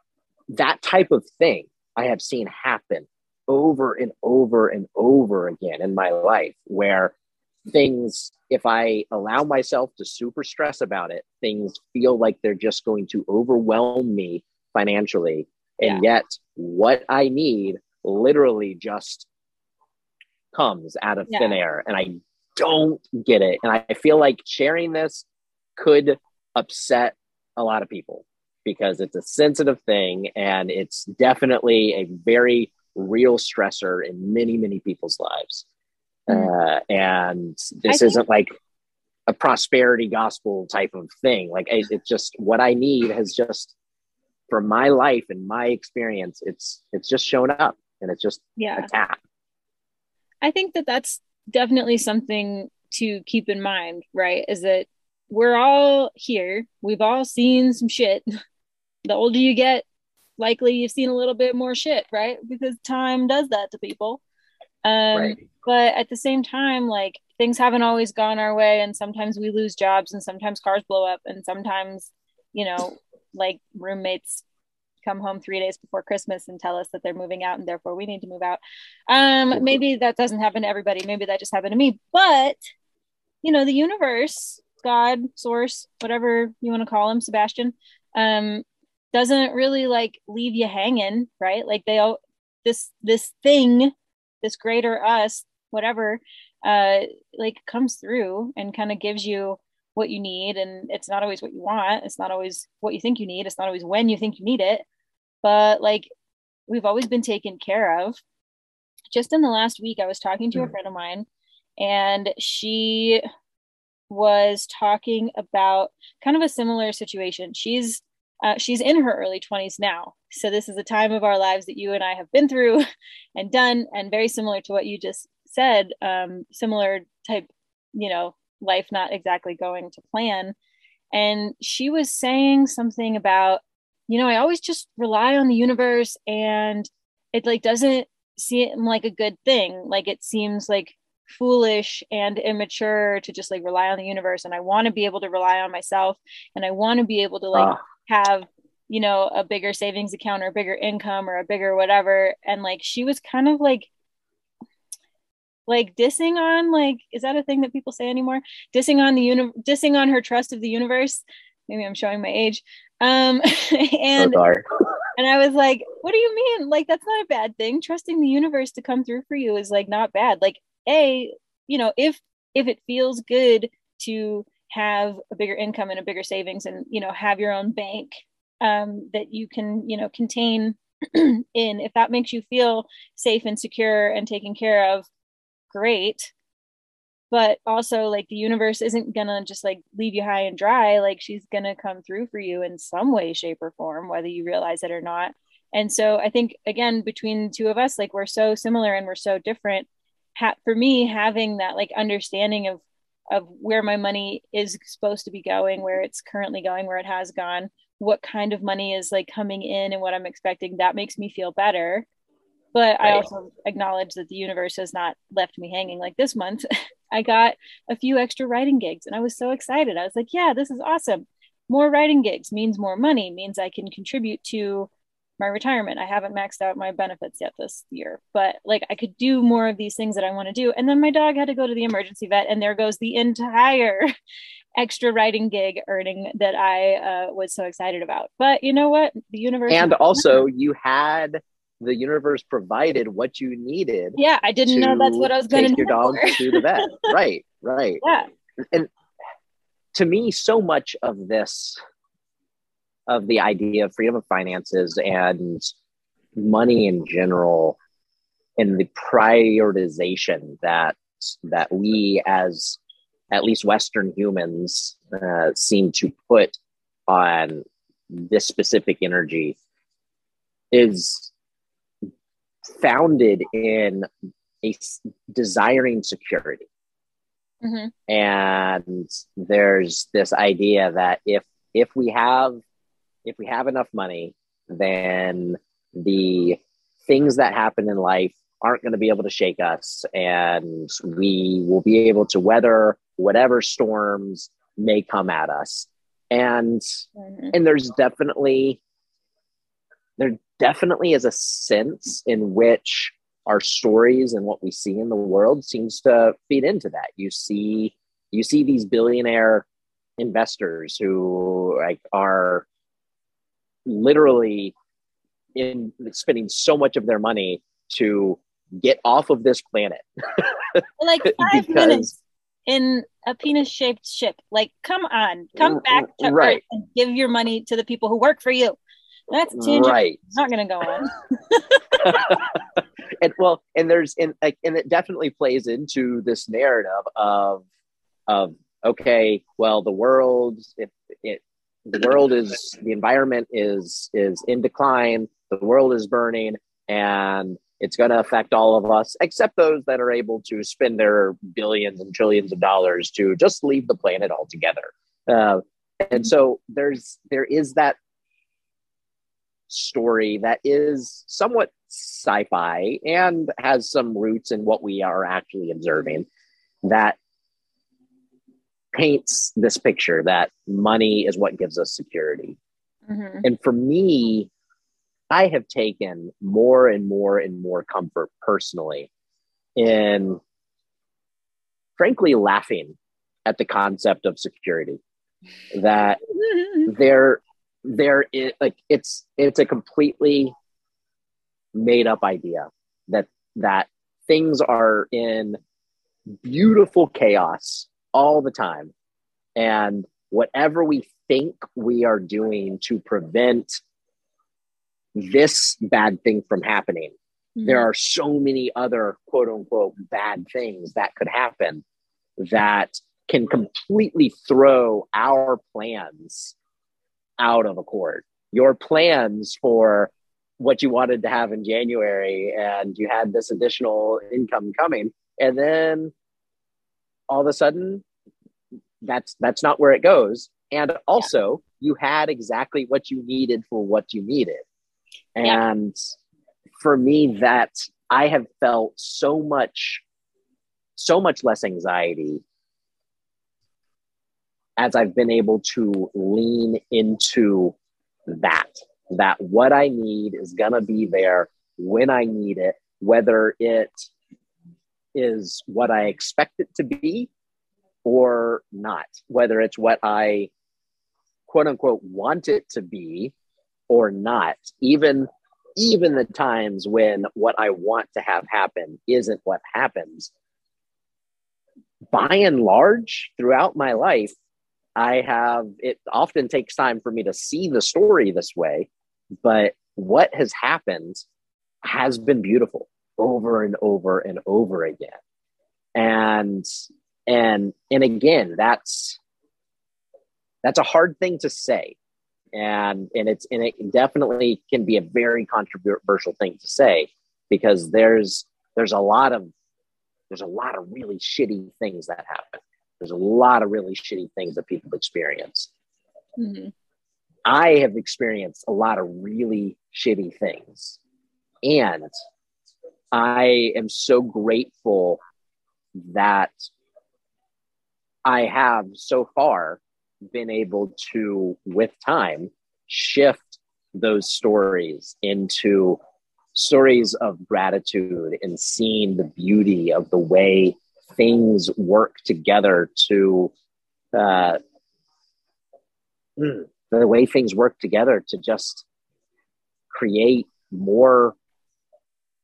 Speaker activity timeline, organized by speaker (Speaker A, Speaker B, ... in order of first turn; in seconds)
Speaker A: 0.5-7.1, 7.7-19.3, 20.5-35.6, 36.3-38.5, 39.3-43.7, 44.5-49.2, 65.1-65.4, 147.5-147.8, 164.2-164.6, 213.0-213.3, 239.7-248.0, 249.9-251.8, 253.1-255.7, 256.3-257.8, 258.6-262.8, 263.3-266.6, 267.1-269.6, 270.7-271.3, 272.6-274.1, 274.6-276.7, 278.1-282.6, 283.2-296.8, 297.5-298.8, 300.2-309.6, 310.2-312.6, 313.9-314.7, 315.5-322.1, 325.6-326.6, 329.5-330.2, 332.0-332.6, 333.2-337.6, 338.3-358.0, 359.7-366.3, 366.8-367.2, 368.9-372.6, 373.4-374.5, 375.3-379.1, 379.8-380.4, 382.0-385.0, 385.7-386.2, 386.8-390.5, 391.7-395.6, 396.4-398.9, 399.6-403.8, 405.1-407.1, 407.6-411.8, 412.4-416.6, 417.4-426.1, 427.3-428.0, 429.0-434.6, 435.4-435.9, 436.8-440.0, 441.0-442.4, 444.8-447.7, 448.3-454.1, 455.1-457.3, 458.0-460.5, 461.5-463.3, 463.9-470.3, 472.1-474.3, 475.0-478.9, 479.4-481.2, 481.8-485.1, 485.9-486.6, 487.3-489.2, 490.6-491.9, 492.5-499.5, 500.3-505.7, 507.4-511.0, 511.6-512.1, 513.1-515.2, 516.0-516.7, 518.2-526.0, 526.5-533.5, 534.1-534.6, 536.4-538.9, 539.9-541.4
Speaker B: 21.3-21.6, 37.9-38.2, 48.6-48.9, 50.4-58.2, 59.0-59.8, 60.4-64.2, 64.8-74.4, 75.0-82.6, 83.4-104.8, 105.4-106.1, 106.7-108.2, 109.1-111.3, 111.8-113.2, 114.1-122.8, 123.3-130.5, 131.1-153.9, 155.7-164.4, 165.2-185.1, 185.7-186.3, 187.3-212.1, 212.7-234.1, 234.8-240.4, 244.2-247.1, 248.0-248.3, 277.6-277.9, 297.2-297.5, 321.0-328.8, 329.3-332.4, 373.1-373.4, 386.5-386.9, 407.6-407.9, 506.4-506.7